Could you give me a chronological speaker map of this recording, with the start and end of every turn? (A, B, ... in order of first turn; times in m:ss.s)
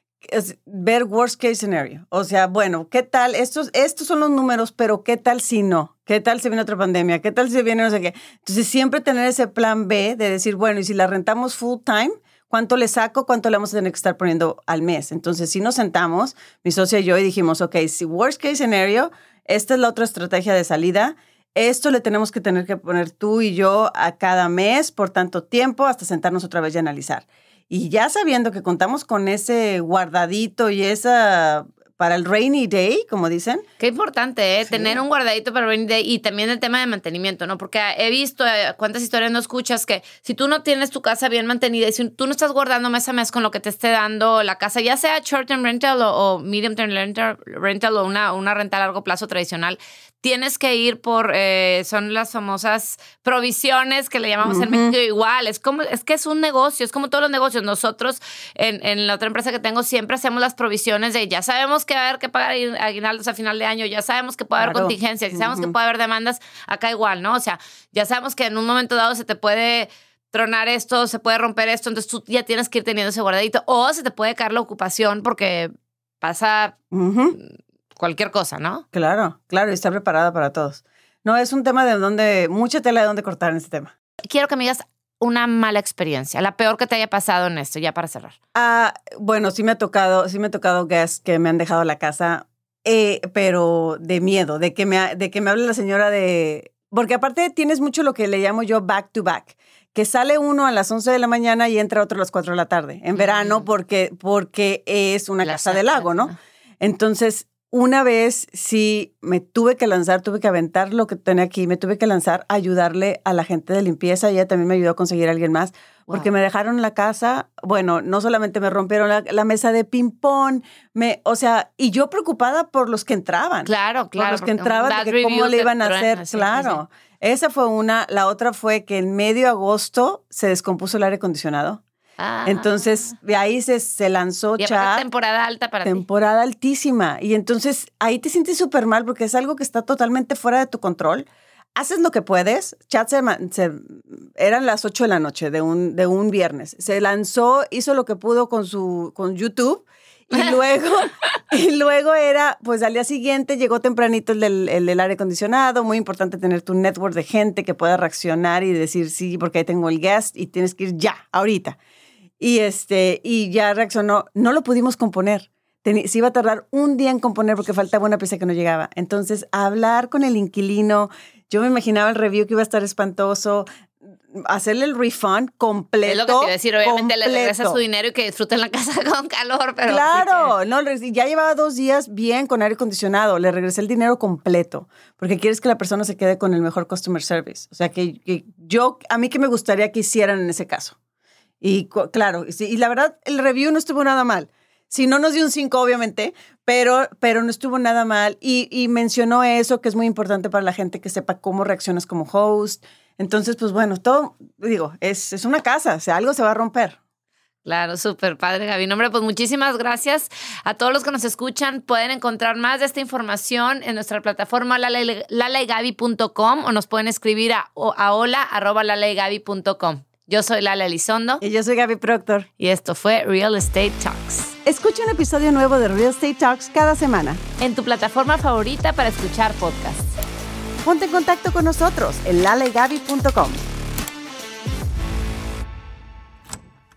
0:00.2-0:33.6 A
0:33.8-1:16.8 B
0:34.7-0:35.0 A
0:54.4-0:55.0 A
1:04.6-1:05.7 A
1:16.9-1:17.4 A
1:17.4-1:18.8 B
1:18.9-1:23.9 A
1:24.3-1:28.4 B
1:28.5-2:11.8 A
1:43.2-1:43.6 B
1:45.4-1:46.4 B
2:03.6-2:06.8 B
2:12.2-2:12.8 B
2:12.4-2:15.1 A
2:14.6-2:16.0 B
2:15.8-2:41.8 A
2:42.4-2:53.7 A
2:54.3-2:57.8 A
2:56.1-3:00.5 B
2:59.9-3:11.0 A
3:11.6-3:27.0 A
3:27.6-3:41.4 B
3:41.4-3:42.5 A
3:42.6-3:44.5 B
3:44.6-3:47.4 A
3:47.6-3:50.2 B
3:50.8-3:53.6 A